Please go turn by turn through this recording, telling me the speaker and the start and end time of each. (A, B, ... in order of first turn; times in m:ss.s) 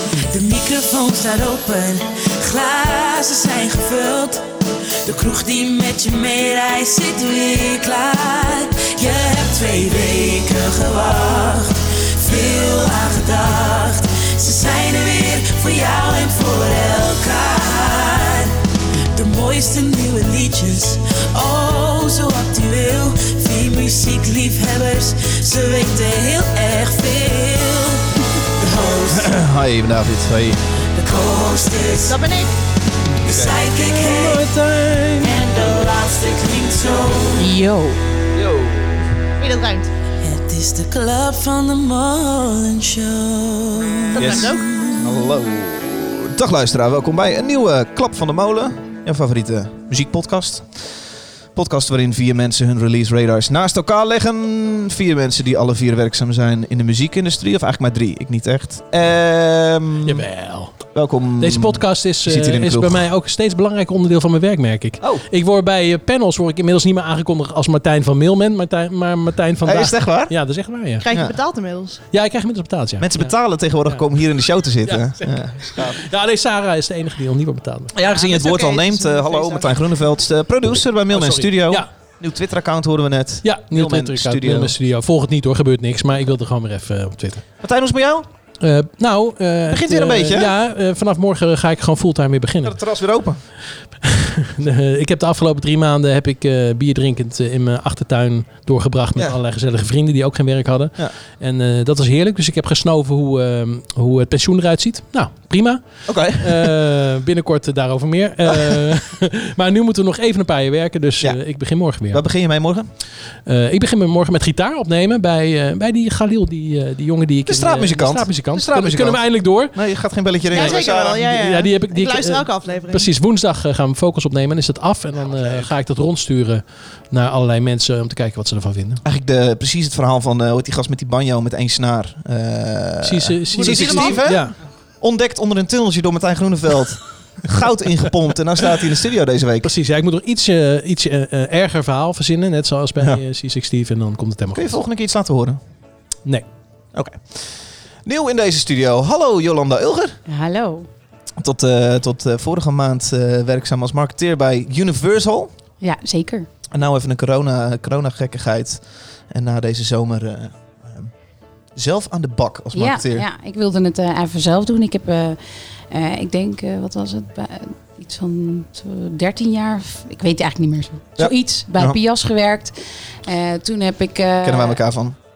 0:00.2-0:04.5 A
0:05.0-0:18.6 A
0:19.1-0:29.3 A
0:29.1-0:30.6 B
0:30.9-0:32.2 A
0:32.0-0:32.5 C
0:33.2-0:34.5 A
0:33.3-0:33.6 B
0:33.8-0:35.4 D
0:35.2-0:37.5 A
0:37.4-0:38.0 E
0:38.3-0:39.1 B
0:39.4-0:39.9 C
0:40.2-0:45.2 A
0:44.2-1:00.3 B
0:44.2-0:44.6 C
1:00.0-1:11.1 D
1:00.9-1:03.1 B
1:09.6-1:11.3 B
1:11.0-1:12.0 C
1:12.1-1:18.0 D
1:13.0-1:16.0 B
1:17.9-1:24.8 B
1:18.1-1:19.8 C
1:21.0-1:21.9 D
1:23.4-1:27.5 D
1:27.6-1:28.3 B
1:28.6-1:32.8 D
1:29.7-1:30.5 B
1:32.6-1:33.4 B
1:34.0-1:52.2 D
1:46.1-1:46.7 B
1:51.2-1:52.9 B
1:53.4-1:59.8 D
1:57.5-2:01.2 B
2:00.5-2:09.0 D
2:00.5-2:03.1 C
2:05.2-2:05.7 B
2:09.0-2:19.7 B
2:13.0-2:14.6 D
2:13.5-2:14.4 C
2:19.6-2:24.8 D
2:24.5-2:25.6 B
2:26.9-2:30.2 B
2:30.3-2:30.9 E
2:31.4-2:35.5 B
2:35.8-2:36.5 E
2:36.7-2:41.1 B
2:41.7-2:43.2 B
2:42.7-2:45.4 E
2:45.9-2:52.7 E
2:51.2-2:52.0 B
2:53.2-2:54.8 E
2:54.4-2:55.2 B